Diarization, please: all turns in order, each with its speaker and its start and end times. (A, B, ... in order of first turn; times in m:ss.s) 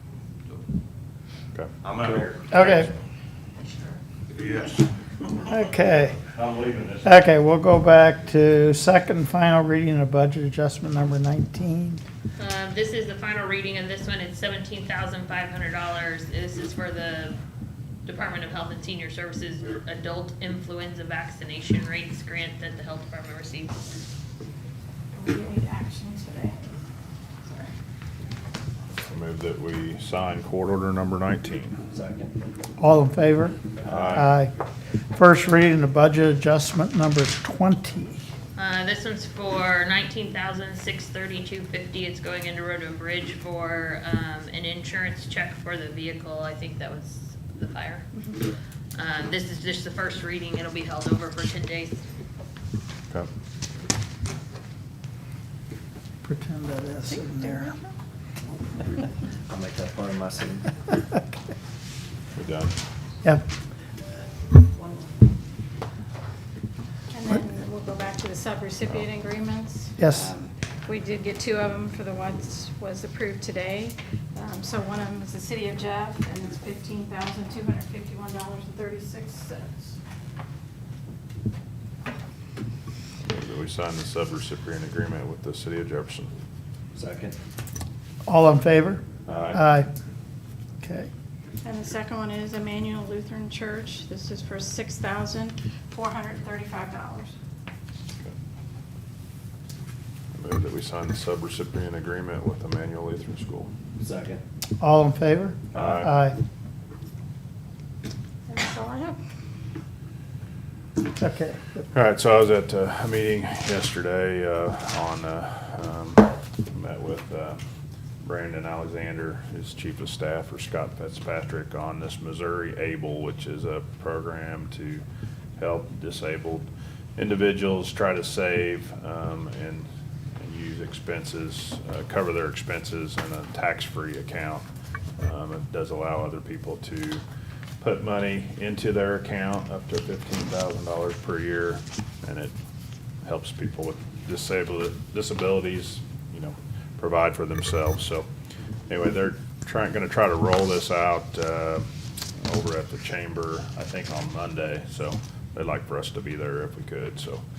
0:01.8-0:02.9 A
0:02.5-0:02.9 B
0:04.3-0:04.9 A
0:05.5-0:06.2 B
0:06.3-0:07.1 A
0:07.0-0:12.0 B
0:12.4-0:17.4 C
0:18.0-0:23.8 C
0:25.2-0:26.8 D
0:27.4-0:27.7 D
0:29.0-0:31.8 E
0:31.9-0:32.4 F
0:32.8-0:34.5 B
0:33.8-0:34.1 F
0:33.9-0:34.3 E
0:35.1-0:38.2 B
0:38.6-0:48.4 C
0:48.1-0:48.4 D
0:48.9-0:52.0 C
0:56.2-0:57.8 B
0:59.5-1:00.7 F
1:02.4-1:02.7 E
1:07.1-1:20.0 D
1:10.0-1:10.3 B
1:23.2-1:26.3 E
1:27.0-1:27.4 F
1:28.3-1:29.9 B
1:29.3-1:29.6 E
1:30.8-1:31.1 B
1:31.6-1:37.3 D
1:40.3-1:43.7 E
1:44.0-1:44.4 F
1:44.8-1:46.4 B
1:45.7-1:46.1 E
1:48.5-1:49.2 D
1:51.2-1:51.8 B
1:51.9-1:57.6 E
1:58.2-2:05.0 E
2:05.6-2:09.9 E
2:10.4-2:14.7 E
2:15.2-2:17.2 E
2:17.8-2:22.5 E
2:23.2-2:28.3 E
2:28.9-2:31.9 E
2:32.4-2:37.4 E